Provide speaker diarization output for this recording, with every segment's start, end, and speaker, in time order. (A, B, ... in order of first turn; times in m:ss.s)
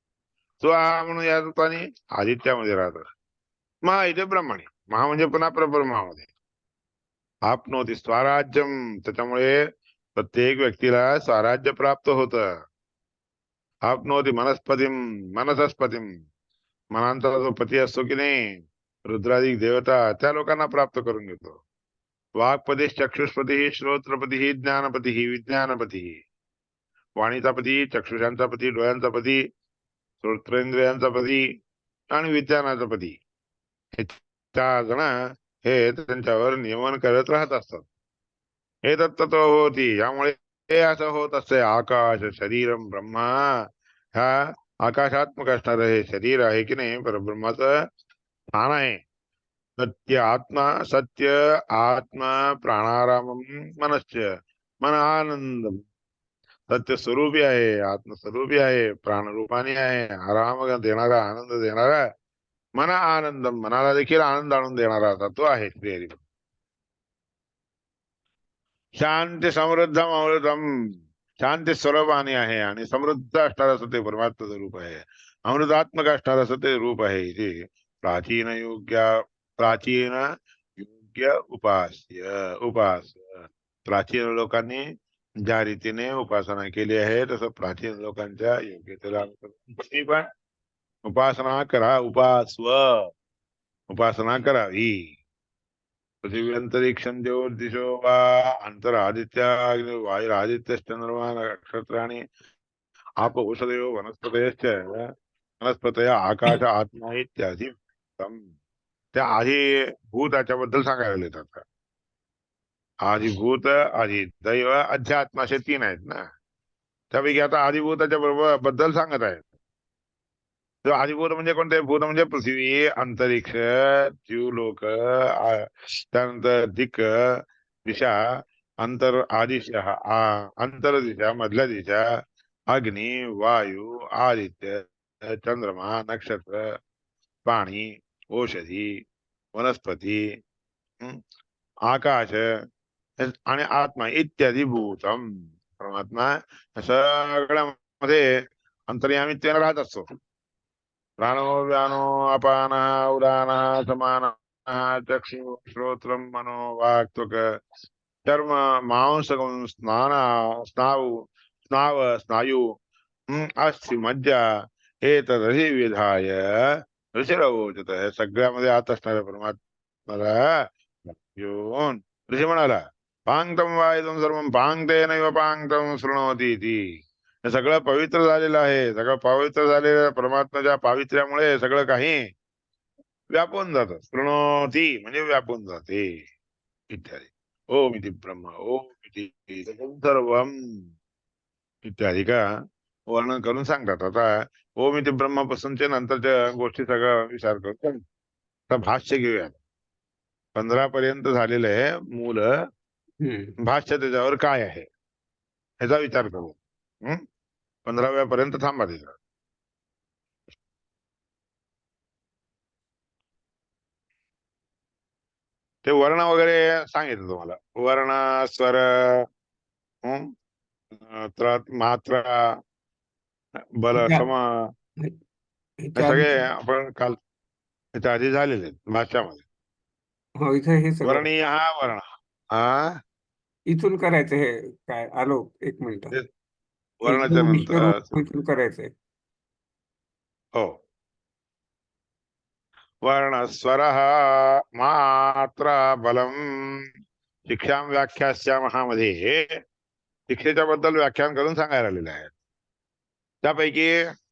0:00.6-0:03.0 A
0:03.8-0:06.3 A
0:07.5-0:09.6 A
0:10.1-0:12.4 A
0:13.9-0:16.1 A
0:16.9-0:18.3 A
0:19.1-0:21.6 A
0:22.4-0:26.2 A
0:27.2-0:29.4 A
0:30.2-0:31.4 A
0:32.1-0:33.2 A
0:34.0-0:35.1 A
0:35.6-0:37.8 A
0:38.9-0:43.6 A
0:44.2-0:47.7 A
0:48.6-0:49.0 A
0:49.8-0:54.2 A
0:54.8-0:55.8 A
0:56.7-1:02.0 A
1:02.8-1:06.2 A
1:09.0-1:10.6 A
1:11.4-1:20.2 A
1:20.8-1:24.8 A
1:25.5-1:30.2 A
1:31.0-1:33.1 A
1:33.9-1:35.1 A
1:36.2-1:42.2 A
1:43.2-1:48.4 A
1:49.1-1:51.6 A
1:53.0-1:56.2 A
1:57.1-1:59.4 A
2:00.8-2:07.0 A
2:07.8-2:08.2 A
2:08.8-2:12.0 A
2:12.7-2:16.6 A
2:17.4-2:18.9 A
2:19.6-2:20.2 A
2:21.9-2:22.4 A
2:23.2-2:25.2 A
2:25.8-2:28.2 A
2:28.9-2:30.1 A
2:31.2-2:37.4 A
2:38.2-2:41.1 A
2:41.7-2:42.6 A
2:43.3-2:44.4 A
2:45.0-2:46.4 A
2:47.1-2:50.4 A
2:51.1-3:02.3 A
3:03.3-3:06.2 A
3:06.9-3:10.8 A
3:11.8-3:12.4 A
3:13.1-3:18.0 A
3:18.7-3:19.6 A
3:20.5-3:22.5 A
3:23.2-3:23.5 B
3:23.6-3:24.9 A
3:25.8-3:27.2 A
3:27.8-3:29.2 A
3:35.8-3:39.2 A
3:40.0-3:40.3 A
3:41.0-3:42.4 A
3:43.8-3:44.7 A
3:43.9-3:44.2 B
3:45.8-3:46.4 B
3:46.0-3:47.2 A
3:48.0-3:49.4 A
3:50.4-3:51.2 B
3:51.0-3:53.0 A
3:53.7-3:56.2 B
3:57.0-3:58.1 A
3:57.0-3:58.9 B
4:00.5-4:00.8 A
4:03.0-4:06.8 A
4:07.5-4:09.5 A
4:10.3-4:12.3 A
4:13.4-4:13.9 A